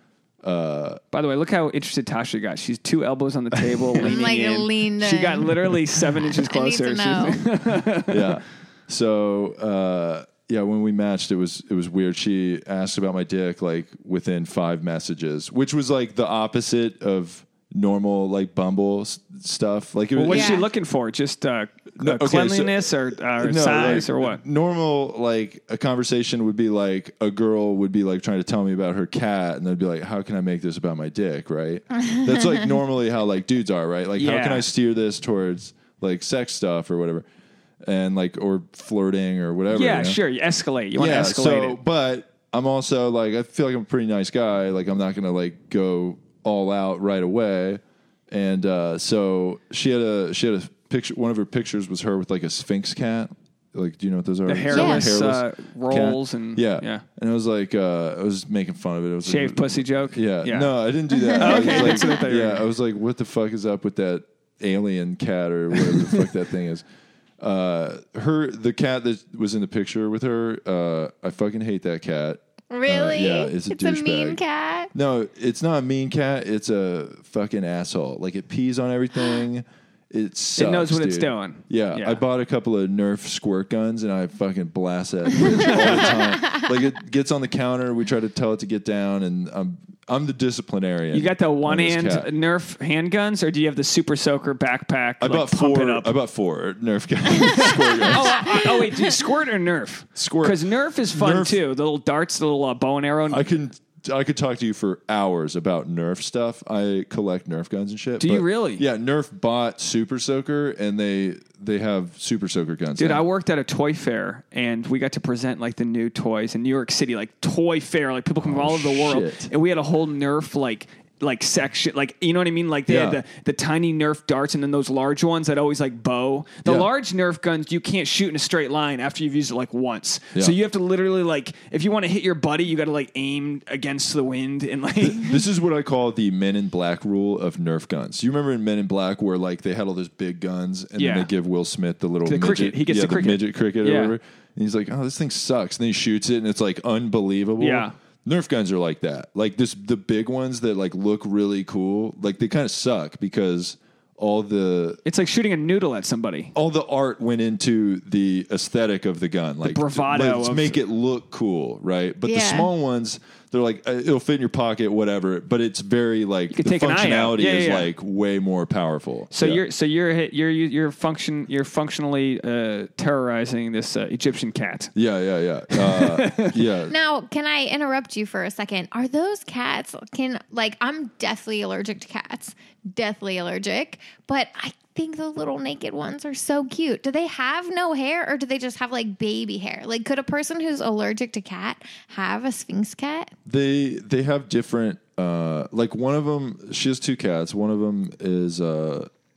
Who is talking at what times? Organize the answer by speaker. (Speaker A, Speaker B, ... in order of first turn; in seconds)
Speaker A: 0.4-1.0, 3.6-4.0, 8.1-20.6, 22.0-37.2, 37.8-40.2, 41.0-66.8, 67.4-74.4, 74.9-92.3, 95.2-98.7, 100.1-101.6, 103.3-113.2, 118.4-119.5, 122.9-123.2, 135.0-155.0, 156.5-169.6, 174.9-176.9, 193.4-199.1
Speaker B: 1.1-8.4, 20.1-24.4, 34.2-34.6, 39.7-41.8, 54.5-57.0, 59.2-60.7, 61.3-62.6, 80.5-82.2, 85.5-85.8, 91.1-96.1, 97.3-103.5, 108.2-108.8, 113.0-135.4, 141.0-141.3, 142.2-144.1, 147.6-147.9, 155.0-156.5, 159.6-160.8, 166.5-167.9, 169.3-174.9, 175.7-176.5
Speaker C: 4.0-7.4, 20.3-20.7, 54.7-55.1, 61.2-62.1, 72.7-74.9, 162.2-162.7, 176.9-193.3